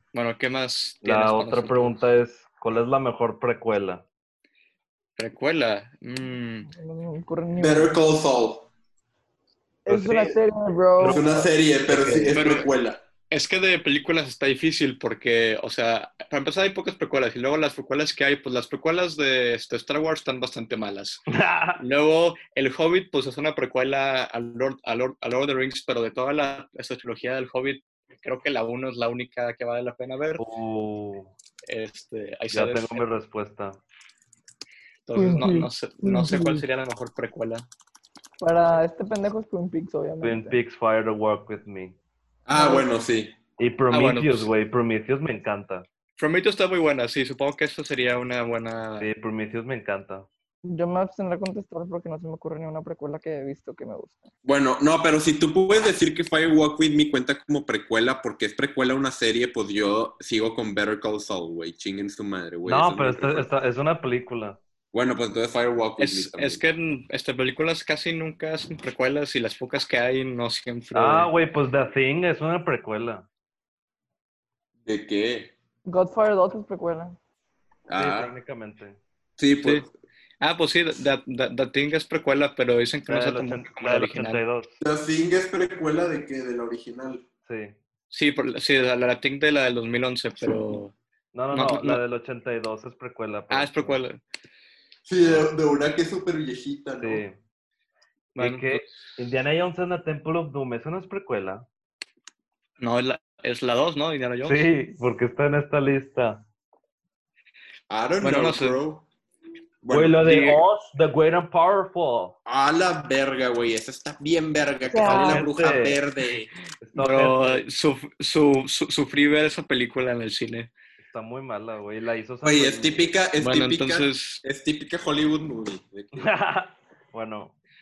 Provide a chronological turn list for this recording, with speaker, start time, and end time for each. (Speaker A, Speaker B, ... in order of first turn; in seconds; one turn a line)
Speaker A: 0.1-1.9
Speaker B: 1.0-4.0
Speaker A: 5.2-6.7
Speaker C: 6.7-8.0
Speaker D: 7.6-8.7
Speaker C: 9.8-11.5
Speaker B: 9.9-10.3
Speaker B: 11.0-12.3
Speaker D: 11.0-13.0
Speaker A: 12.0-12.7
Speaker A: 13.3-21.2
Speaker B: 21.3-21.8
Speaker A: 21.8-30.4
Speaker B: 30.4-31.3
Speaker A: 31.6-33.0
Speaker B: 32.5-33.8
Speaker A: 35.1-37.7
Speaker C: 35.1-36.6
Speaker C: 38.4-40.6
Speaker B: 40.2-42.0
Speaker D: 42.5-43.4
Speaker C: 42.5-42.9
Speaker B: 43.6-45.9
Speaker A: 43.9-44.5
Speaker A: 46.2-49.1
Speaker B: 49.0-50.3
Speaker C: 50.6-54.3
Speaker D: 54.5-63.5
Speaker B: 62.7-64.6
Speaker D: 64.9-66.6
Speaker A: 66.0-71.3
Speaker B: 70.9-73.3
Speaker D: 74.8-75.5
Speaker C: 75.9-77.2
Speaker D: 77.9-78.3
Speaker B: 77.9-79.0
Speaker D: 79.4-79.9
Speaker A: 79.6-79.9
Speaker A: 80.4-84.4
Speaker B: 83.1-84.8
Speaker D: 84.8-87.2
Speaker B: 87.5-87.8
Speaker A: 88.1-90.9
Speaker B: 91.3-94.0
Speaker A: 91.5-92.0
Speaker A: 93.5-94.2
Speaker D: 95.1-97.2
Speaker B: 95.2-95.5
Speaker B: 97.0-97.4
Speaker A: 98.3-99.0
Speaker B: 98.4-101.7
Speaker A: 102.8-104.6
Speaker B: 104.4-106.4
Speaker D: 107.9-109.0
Speaker A: 108.2-108.8
Speaker D: 109.8-110.6
Speaker B: 109.9-112.4
Speaker A: 110.2-110.6
Speaker D: 112.5-116.5
Speaker C: 114.9-115.4
Speaker B: 115.0-116.0
Speaker B: 116.8-117.6
Speaker A: 117.0-120.7
Speaker B: 121.0-123.1
Speaker D: 122.4-126.3
Speaker A: 123.4-124.4
Speaker B: 126.1-127.5